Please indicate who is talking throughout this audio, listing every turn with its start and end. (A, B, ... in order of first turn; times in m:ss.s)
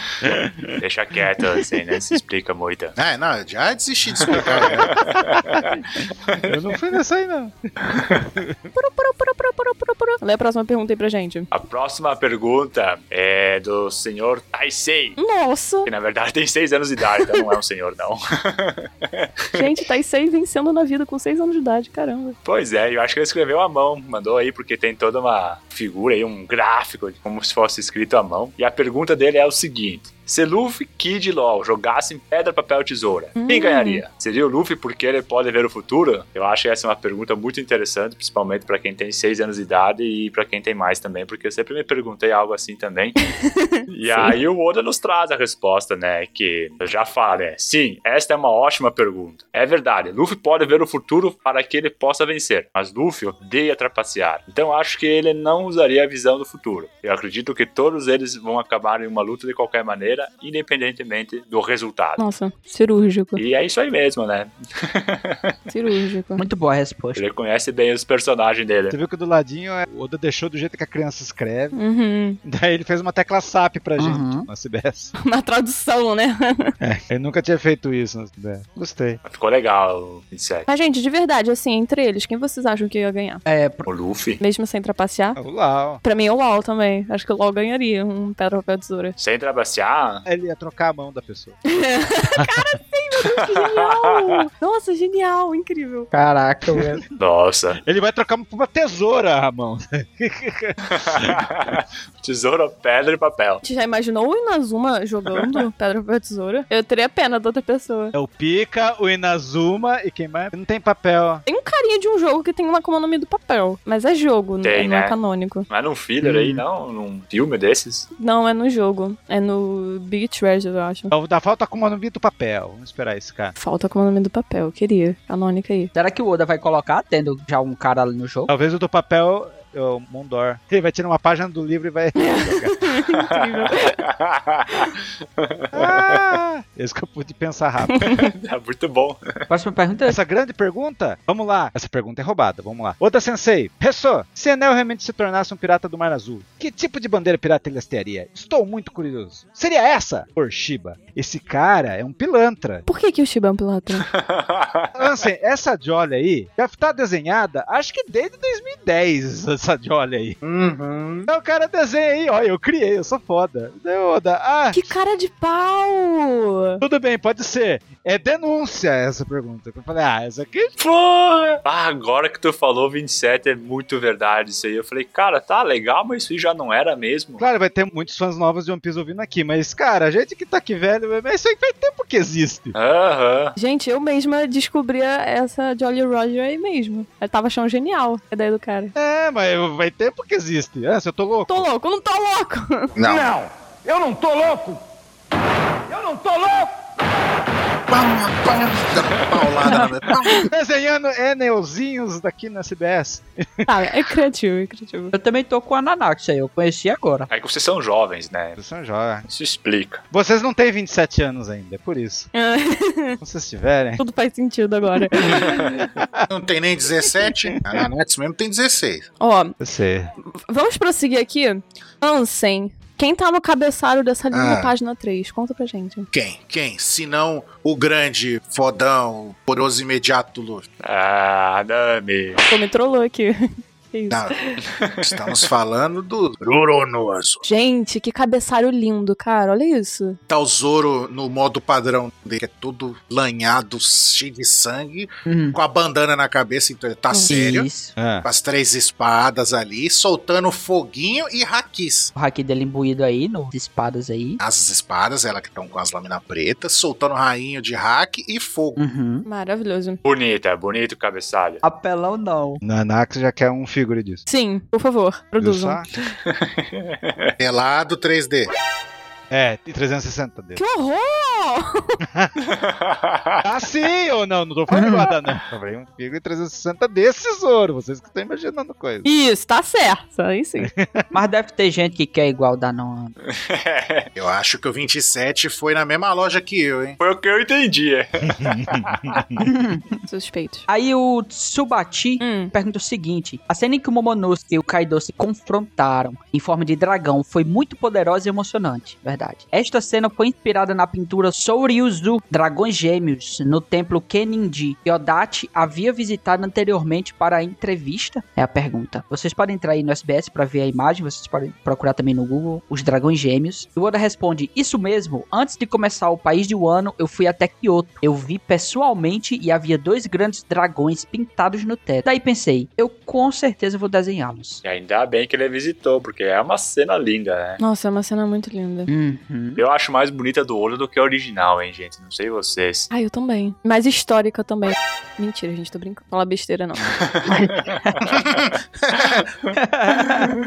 0:00.2-0:00.8 A
0:00.8-0:02.9 B
0:03.0-0:04.9 C
0:04.3-0:06.5 B
0:04.4-0:05.5 A
0:06.5-0:08.6 A
0:08.8-0:11.5 D
0:11.5-0:15.2 B
0:15.2-0:15.9 D
0:15.8-0:19.6 B
0:19.5-0:22.4 D
0:22.4-0:43.2 B
0:33.4-0:34.0 D
0:43.4-0:44.4 D
0:43.9-1:02.2 B
1:02.2-1:03.4 D
1:03.4-1:05.5 B
1:05.7-1:06.4 D
1:06.4-1:07.2 E
1:07.2-1:09.0 B
1:08.9-1:11.8 A
1:11.7-1:12.4 D
1:12.4-1:15.1 A
1:14.0-1:14.5 E
1:15.2-1:16.7 D
1:16.8-1:19.2 A
1:19.3-1:20.7 B
1:20.7-1:23.4 D
1:23.5-1:23.9 E
1:23.9-1:24.4 B
1:24.4-1:25.4 D
1:25.4-1:26.0 A
1:26.0-1:29.2 D
1:29.2-1:30.2 B
1:30.2-1:31.6 A
1:31.7-1:36.1 D
1:36.1-1:37.0 E
1:37.2-1:37.8 B
1:37.8-1:41.7 A
1:40.8-1:43.6 B
1:43.6-1:48.1 D
1:48.1-1:51.4 A
1:51.5-1:55.7 D
1:54.6-1:55.2 B
1:55.7-1:58.1 B
1:56.2-1:56.6 E
1:58.2-2:01.1 D
2:01.1-2:03.6 A
2:03.6-2:05.9 D
2:05.9-2:08.5 E
2:08.5-2:13.0 A
2:12.2-2:14.0 D
2:13.3-2:16.2 B
2:15.7-2:18.0 A
2:17.9-2:18.1 D
2:18.0-2:19.4 B
2:19.5-2:20.2 E
2:20.1-2:32.8 A
2:32.9-2:34.1 D
2:34.0-2:35.0 B
2:34.9-2:40.4 A
2:40.4-2:41.3 C
2:41.3-2:44.9 A
2:44.7-2:46.8 D
2:46.8-2:50.7 A
2:50.8-2:57.4 B
2:57.4-3:02.8 A
3:02.7-3:03.6 B
3:03.6-3:08.9 D
3:09.0-3:11.7 A
3:11.5-3:12.9 D
3:13.0-3:13.3 C
3:13.0-3:14.8 F
3:15.9-3:16.7 F
3:17.9-3:20.5 C
3:20.4-3:23.8 A
3:23.7-3:25.1 D
3:25.1-3:27.3 E
3:27.3-3:28.6 B
3:28.6-3:29.3 A
3:29.3-3:30.0 B
3:30.1-3:32.3 A
3:32.3-3:33.2 D
3:33.2-3:34.0 A
3:34.0-3:35.9 D
3:35.7-3:36.3 A
3:36.3-3:39.1 C
3:39.2-3:39.6 D
3:39.6-3:40.1 A
3:40.2-3:46.1 D
3:44.3-3:44.7 C
3:46.1-3:50.7 C
3:50.8-3:52.4 B
3:52.5-3:54.6 D
3:54.1-3:54.4 C
3:55.0-3:57.4 C
3:57.4-4:00.2 D
4:00.3-4:07.7 C
4:05.3-4:05.6 E
4:07.3-4:08.0 E
4:08.0-4:08.3 A
4:08.2-4:12.1 C
4:12.2-4:14.4 E
4:14.4-4:18.8 C
4:18.8-4:19.3 E
4:19.3-4:20.0 D
4:20.1-4:21.6 B
4:21.6-4:22.6 E
4:22.6-4:24.2 A
4:24.3-4:25.8 D
4:25.4-4:25.9 A
4:26.3-4:27.3 B
4:27.4-4:28.5 C
4:29.3-4:30.6 A
4:30.6-4:32.0 D
4:32.4-4:33.4 B
4:33.4-4:39.1 A
4:34.7-4:35.2 E
4:39.0-4:40.7 D
4:40.6-4:41.0 A
4:41.1-4:43.2 E
4:43.3-4:44.1 B
4:44.2-4:47.0 C
4:47.0-4:49.4 B
4:48.2-4:49.4 A
4:49.4-4:49.9 E
4:50.1-4:50.7 D
4:50.7-5:24.6 E
4:52.2-4:52.5 D
5:24.6-5:27.6 B
5:27.6-5:28.9 D
5:28.9-5:29.6 E
5:29.6-5:32.9 B
5:32.9-5:36.9 D
5:37.0-5:37.7 B
5:37.3-5:38.0 E
5:38.1-5:39.2 C
5:39.5-5:40.3 E